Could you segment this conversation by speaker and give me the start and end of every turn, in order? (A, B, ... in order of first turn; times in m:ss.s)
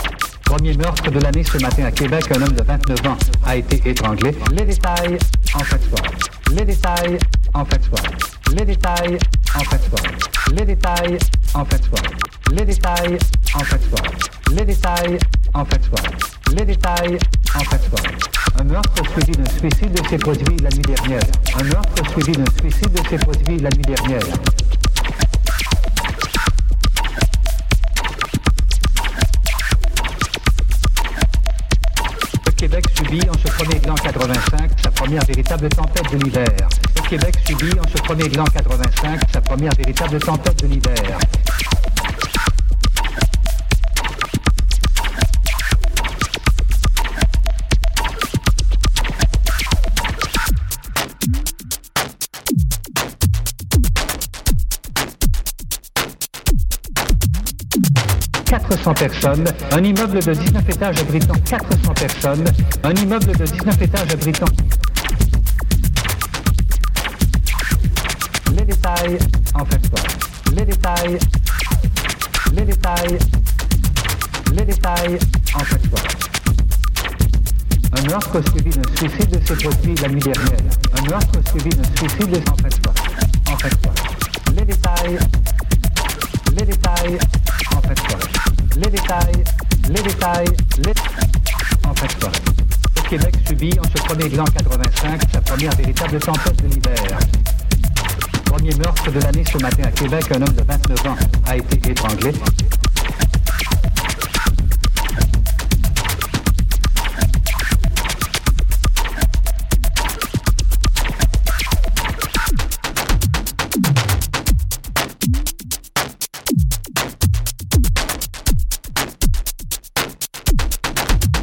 0:00.5-0:24.4 A
0:32.4-0:41.2 A
0:58.5-1:04.6 A
1:08.5-1:11.2 A
1:12.5-1:13.2 A
1:14.5-1:16.2 A
1:17.9-1:25.2 A
1:26.5-1:31.0 A
1:31.8-1:37.2 A
1:38.5-1:42.5 A